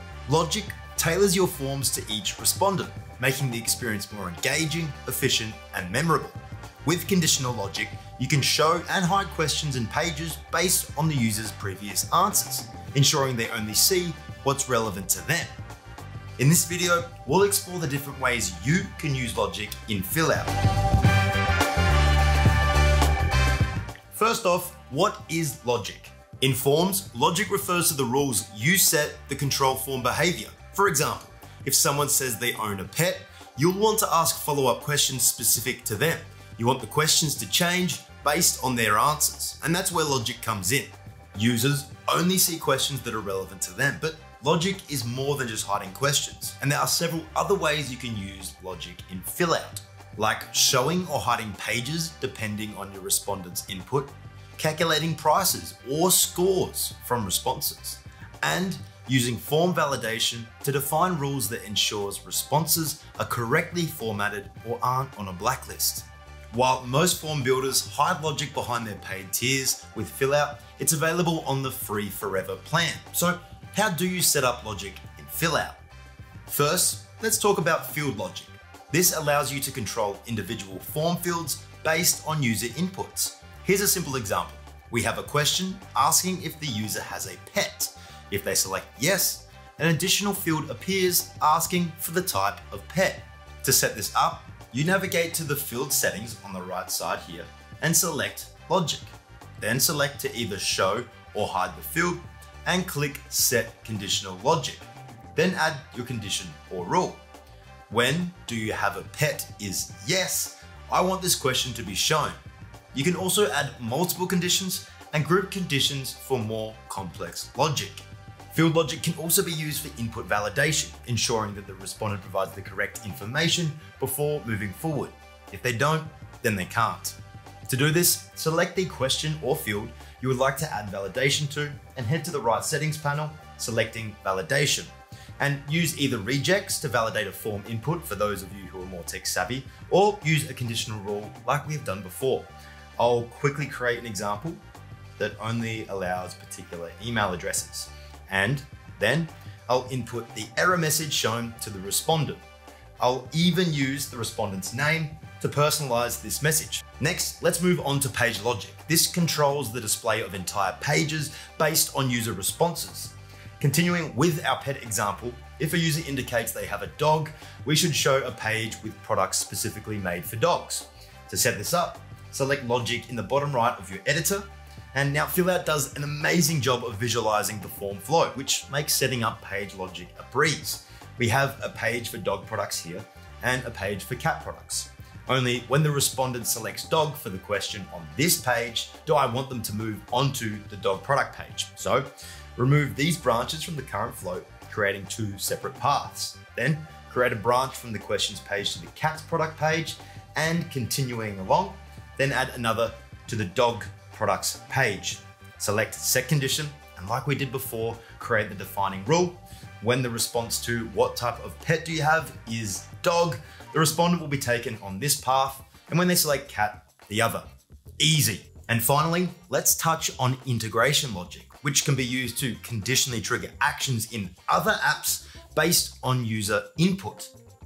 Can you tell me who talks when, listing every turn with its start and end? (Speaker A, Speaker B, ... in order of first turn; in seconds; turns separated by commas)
Speaker A: 0.3-15.5, Speaker A: 16.4-20.5, Speaker A: 24.1-75.8, Speaker A: 76.5-107.2, Speaker A: 107.9-112.4, Speaker A: 112.9-127.2, Speaker A: 127.7-144.6, Speaker A: 145.2-152.4, Speaker A: 153.0-217.4, Speaker A: 218.0-227.3